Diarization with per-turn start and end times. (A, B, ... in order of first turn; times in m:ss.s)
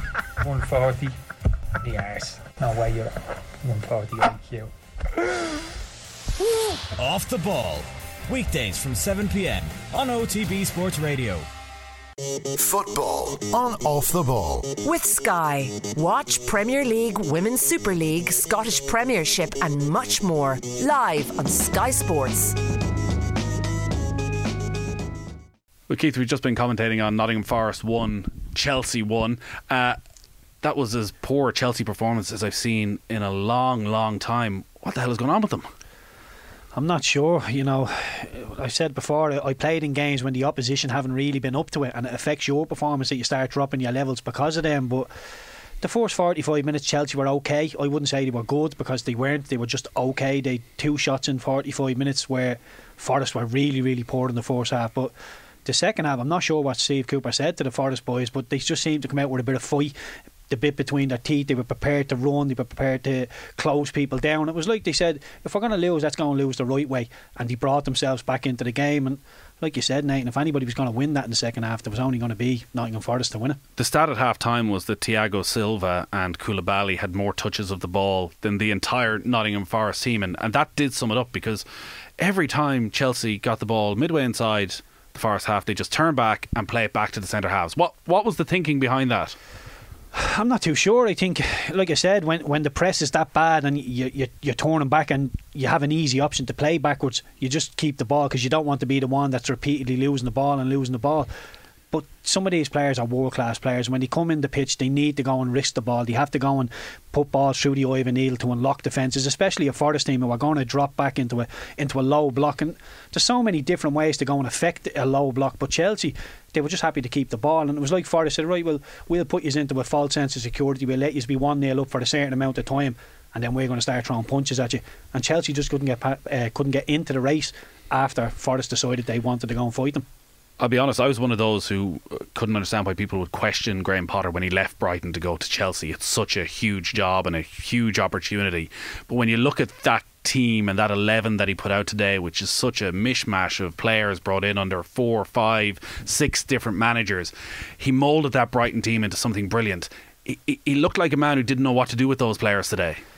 0:00.4-0:01.2 A
0:01.8-0:04.7 A
0:07.0-0:11.4 B
0:12.5-0:14.8 C
0:14.8-0:22.6 D
0:25.9-0:30.0 E
0:30.6-0:35.7 E
0:36.7-0:45.1 F
0:45.8-0:55.1 F
0:55.6-0:59.9 F
1:00.5-1:13.6 F
1:13.8-1:21.6 E
1:22.2-1:29.4 E
1:30.1-1:41.3 F
1:41.9-2:10.0 F
2:10.6-2:33.0 E